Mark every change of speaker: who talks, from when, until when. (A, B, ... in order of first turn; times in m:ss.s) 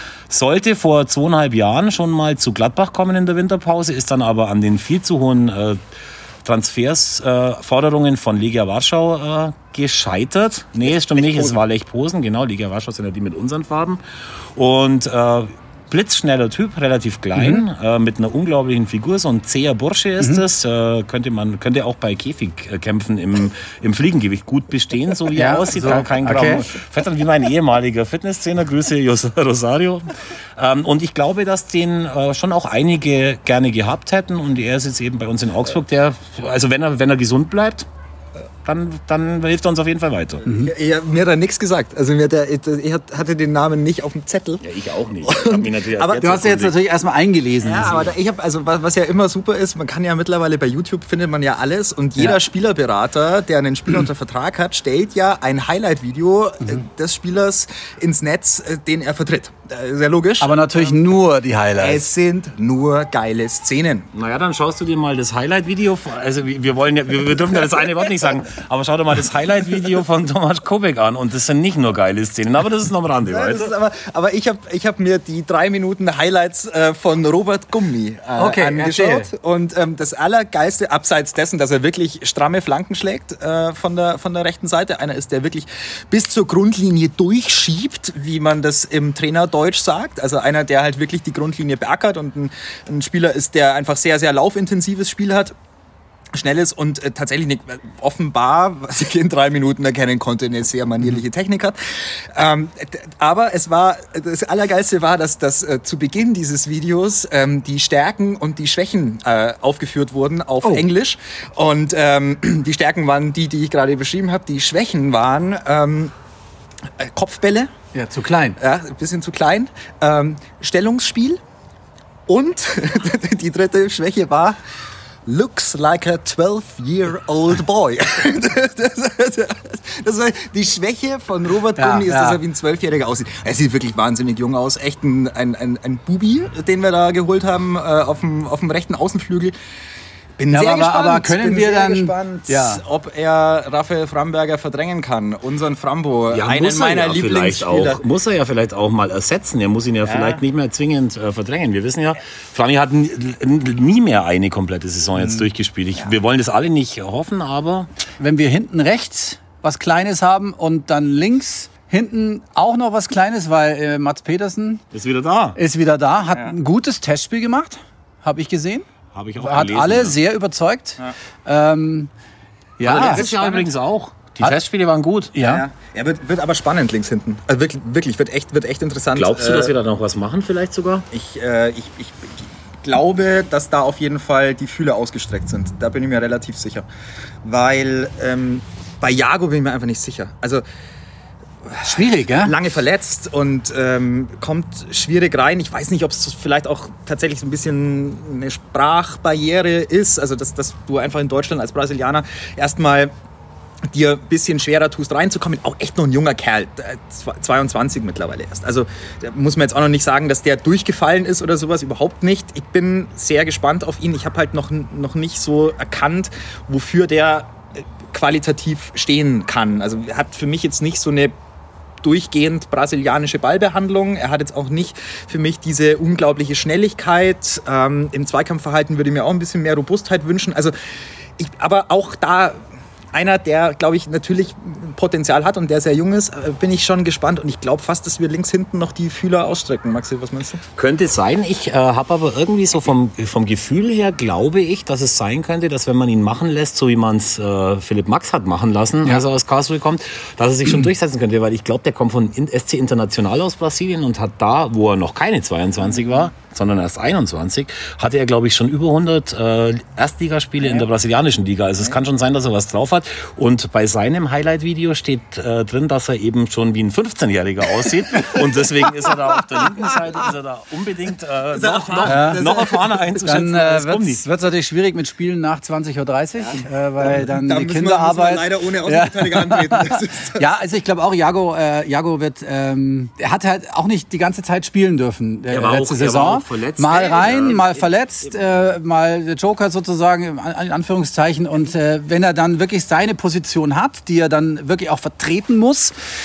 0:00.3-0:05.8 A
0:06.4-0:14.0 A
0:11.2-0:11.6 B
0:14.5-0:37.9 A
0:17.4-0:17.6 C
0:25.3-0:26.7 C
0:38.6-0:40.4 A
0:40.4-0:40.7 C
0:40.4-0:44.6 B
0:44.6-0:46.8 A
0:45.2-0:46.3 B
0:46.2-0:48.1 C
0:47.6-1:00.9 B
1:00.4-1:02.0 C
1:01.8-1:04.1 B
1:04.1-1:13.7 A
1:13.2-1:35.5 B
1:18.4-1:19.3 C
1:36.3-1:56.1 B
1:57.0-1:57.7 B
1:57.9-1:58.6 C
1:58.6-2:01.4 B
2:02.3-2:04.6 B
2:05.2-2:19.5 B
2:11.8-2:12.4 C
2:20.4-2:28.0 B
2:20.5-2:22.8 C
2:26.3-2:37.9 A
2:30.0-2:30.4 B
2:38.2-2:44.8 C
2:44.9-2:45.6 A
2:45.6-2:48.8 C
2:49.1-2:50.2 A
2:49.4-2:52.1 C
2:52.8-2:53.3 C
2:52.8-2:55.3 A
2:52.8-2:53.7 B
2:55.3-2:55.6 C
2:55.4-2:59.7 B
2:59.1-3:01.1 A
3:01.1-3:06.8 B
3:07.4-3:10.6 B
3:11.6-3:23.1 B
3:11.8-3:12.6 C
3:23.9-3:41.3 B
3:42.0-3:50.7 B
3:51.4-3:52.6 B
3:53.1-4:00.6 B
4:00.8-4:34.2 A
4:31.5-4:33.0 B
4:32.0-4:32.4 C
4:33.2-4:56.0 C
4:37.2-4:40.5 B
4:45.5-4:48.6 A